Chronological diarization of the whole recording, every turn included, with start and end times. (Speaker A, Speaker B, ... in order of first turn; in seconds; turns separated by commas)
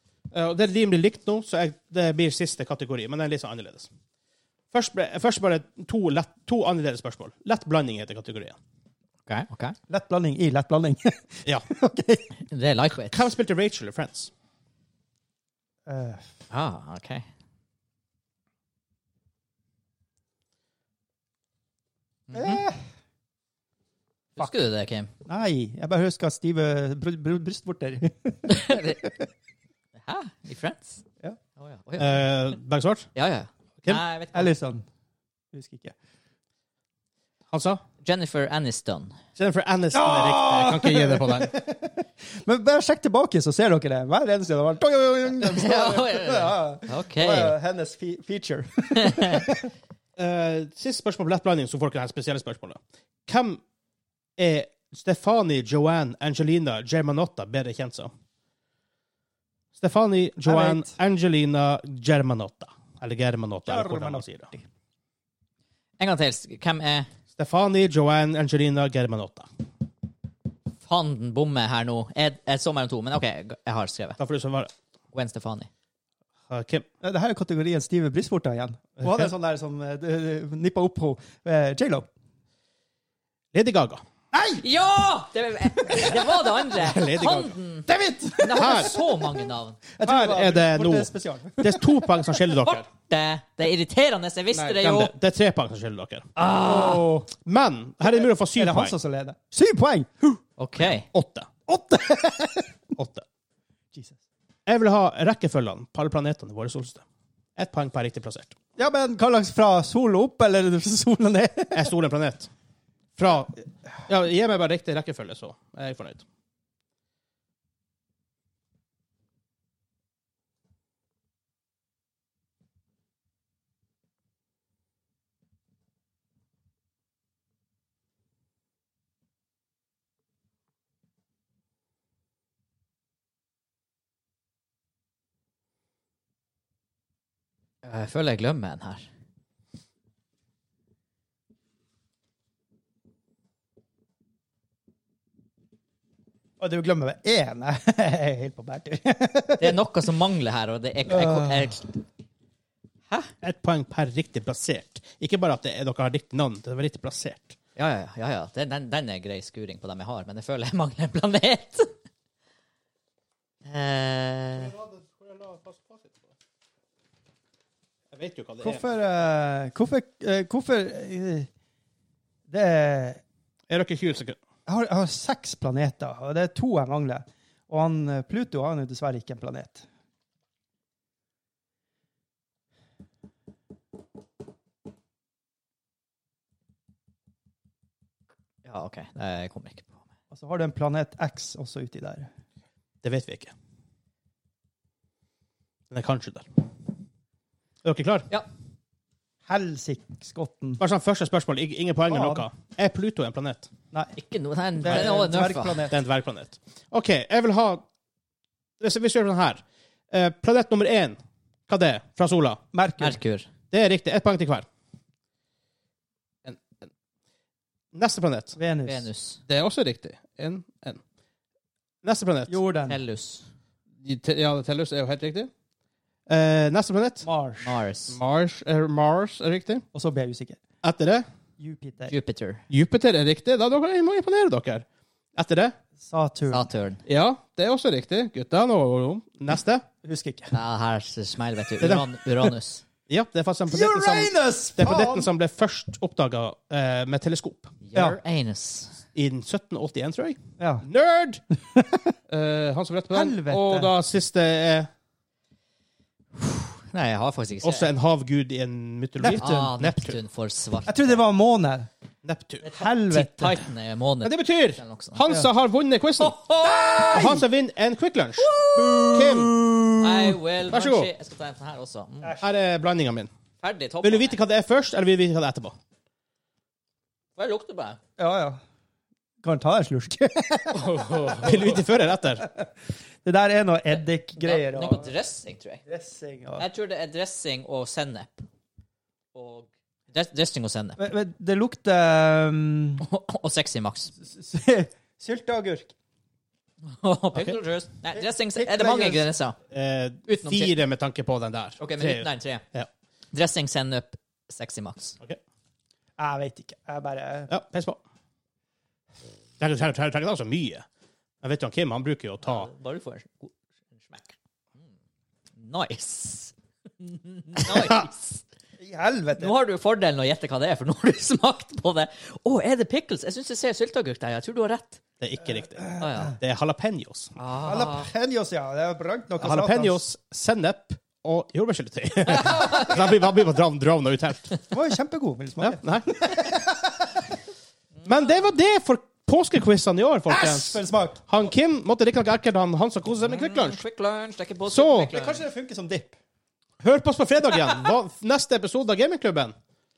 Speaker A: 0.3-3.9, Speaker A: 4.7-8.6, Speaker B: 9.3-9.8, Speaker C: 9.9-12.3, Speaker B: 12.5-13.2, Speaker A: 13.1-14.3, Speaker C: 15.8-16.2, Speaker B: 16.5-17.2, Speaker B: 22.3-22.6, Speaker C: 22.3-22.8, Speaker B: 24.4-25.1, Speaker C: 25.2-29.2, Speaker B: 28.5-29.0, Speaker B: 30.0-31.0, Speaker B: 31.6-32.3, Speaker A: 32.0-33.1, Speaker B: 33.1-34.5, Speaker C: 34.3-34.8, Speaker C: 35.5-35.9, Speaker A: 37.5-37.8, Speaker B: 38.0-39.1, Speaker A: 39.4-41.5, Speaker C: 39.9-49.6, Speaker B: 45.4-47.5, Speaker B: 49.0-49.5, Speaker A: 50.2-53.6, Speaker A: 54.4-58.1, Speaker A: 59.7-64.5, Speaker C: 60.4-61.0, Speaker C: 63.6-64.6, Speaker B: 66.0-67.1, Speaker A: 67.3-69.5, Speaker B: 70.8-74.2, Speaker A: 74.2-74.7, Speaker B: 75.1-75.7, Speaker A: 76.5-76.8, Speaker C: 77.0-82.1, Speaker A: 79.0-79.3, Speaker A: 83.5-84.0, Speaker C: 84.3-84.6, Speaker B: 84.6-89.8, Speaker C: 85.8-86.7, Speaker A: 86.8-87.5, Speaker C: 87.9-92.5, Speaker A: 88.5-88.9, Speaker A: 90.0-92.9, Speaker B: 92.9-95.1, Speaker A: 94.5-96.3, Speaker B: 96.4-97.1, Speaker C: 96.5-97.3, Speaker A: 97.4-98.9, Speaker C: 98.0-100.4, Speaker B: 100.6-101.1, Speaker A: 101.1-101.5, Speaker C: 101.7-102.7, Speaker A: 103.0-103.2, Speaker C: 103.9-104.2, Speaker A: 104.7-107.0, Speaker A: 107.5-108.5, Speaker C: 108.8-111.9, Speaker A: 111.7-112.5, Speaker A: 113.2-116.2, Speaker B: 137.8-139.1, Speaker C: 146.6-149.8, Speaker B: 149.6-151.9, Speaker C: 151.1-151.8, Speaker A: 153.4-157.6, Speaker B: 157.8-161.9, Speaker B: 163.6-164.7, Speaker A: 164.5-166.1, Speaker A: 168.1-168.9, Speaker C: 168.6-171.5, Speaker C: 172.5-173.2, Speaker A: 173.7-174.4, Speaker C: 174.7-179.8, Speaker B: 188.6-189.9, Speaker C: 190.3-192.3, Speaker A: 193.0-193.5, Speaker A: 195.9-196.5, Speaker A: 197.8-198.3, Speaker C: 199.5-200.8, Speaker A: 200.8-203.7, Speaker C: 202.1-202.4, Speaker B: 204.2-205.9, Speaker C: 204.8-206.0, Speaker A: 205.9-207.8, Speaker A: 208.8-212.6, Speaker C: 212.7-213.2, Speaker B: 213.0-213.5, Speaker A: 213.7-214.7, Speaker A: 216.4-216.9, Speaker A: 217.9-218.6, Speaker C: 218.6-219.1, Speaker B: 218.8-219.4, Speaker A: 219.5-221.0, Speaker A: 222.0-222.5, Speaker C: 222.5-223.0, Speaker B: 222.9-223.4, Speaker A: 224.0-225.5, Speaker A: 226.3-227.3, Speaker C: 227.2-227.8, Speaker B: 227.6-228.2, Speaker A: 228.1-229.8, Speaker C: 229.9-230.6, Speaker A: 230.8-231.2, Speaker C: 231.6-232.1, Speaker B: 232.1-232.6, Speaker A: 232.7-234.8, Speaker A: 235.3-235.7, Speaker C: 236.0-236.7, Speaker B: 236.5-237.0, Speaker A: 237.1-239.8, Speaker C: 240.0-240.5, Speaker B: 240.5-242.8, Speaker A: 241.8-242.5, Speaker A: 243.1-247.7, Speaker C: 243.7-245.3, Speaker B: 247.8-249.0, Speaker A: 249.1-251.4, Speaker C: 250.6-250.8, Speaker C: 251.5-252.1, Speaker A: 252.3-254.9, Speaker C: 253.1-253.9, Speaker B: 256.4-257.9, Speaker A: 257.6-260.2, Speaker C: 259.2-259.8, Speaker B: 259.4-261.2, Speaker C: 260.8-261.9, Speaker A: 262.2-262.7, Speaker B: 262.6-265.2, Speaker C: 262.7-263.6, Speaker A: 264.2-266.4, Speaker B: 266.2-267.4, Speaker A: 267.1-268.5, Speaker C: 267.1-267.4, Speaker B: 268.4-269.2, Speaker C: 268.7-270.4, Speaker A: 269.1-269.5, Speaker B: 270.0-272.4, Speaker A: 270.7-271.1, Speaker A: 272.4-273.3, Speaker B: 273.6-274.4, Speaker A: 274.0-275.7, Speaker B: 277.4-278.0, Speaker C: 278.2-278.6, Speaker C: 279.4-281.7, Speaker B: 280.7-281.7, Speaker A: 281.4-282.4, Speaker C: 283.2-285.1, Speaker B: 283.9-285.8, Speaker C: 285.9-286.6, Speaker B: 286.6-288.4, Speaker B: 289.3-291.0, Speaker C: 291.0-293.1, Speaker B: 293.0-294.1, Speaker C: 294.2-295.9, Speaker B: 297.0-299.6, Speaker A: 297.3-297.6, Speaker C: 298.1-299.3, Speaker A: 299.7-302.9, Speaker B: 300.3-300.8, Speaker B: 301.8-302.6, Speaker B: 303.3-305.1, Speaker C: 306.2-307.5, Speaker A: 307.5-308.0, Speaker A: 309.6-310.8, Speaker A: 311.4-312.7, Speaker B: 312.4-314.3, Speaker B: 315.6-318.4, Speaker C: 318.8-319.6, Speaker B: 319.4-325.0, Speaker A: 325.2-327.3, Speaker C: 325.8-326.2, Speaker B: 326.0-326.4, Speaker B: 327.4-328.1, Speaker C: 327.6-330.0, Speaker A: 329.4-334.6, Speaker B: 332.3-332.9, Speaker C: 334.7-337.1, Speaker A: 335.6-336.1, Speaker A: 338.0-343.8, Speaker C: 340.3-341.2, Speaker B: 343.2-345.4, Speaker A: 344.7-345.1, Speaker C: 345.1-346.1, Speaker A: 346.8-349.5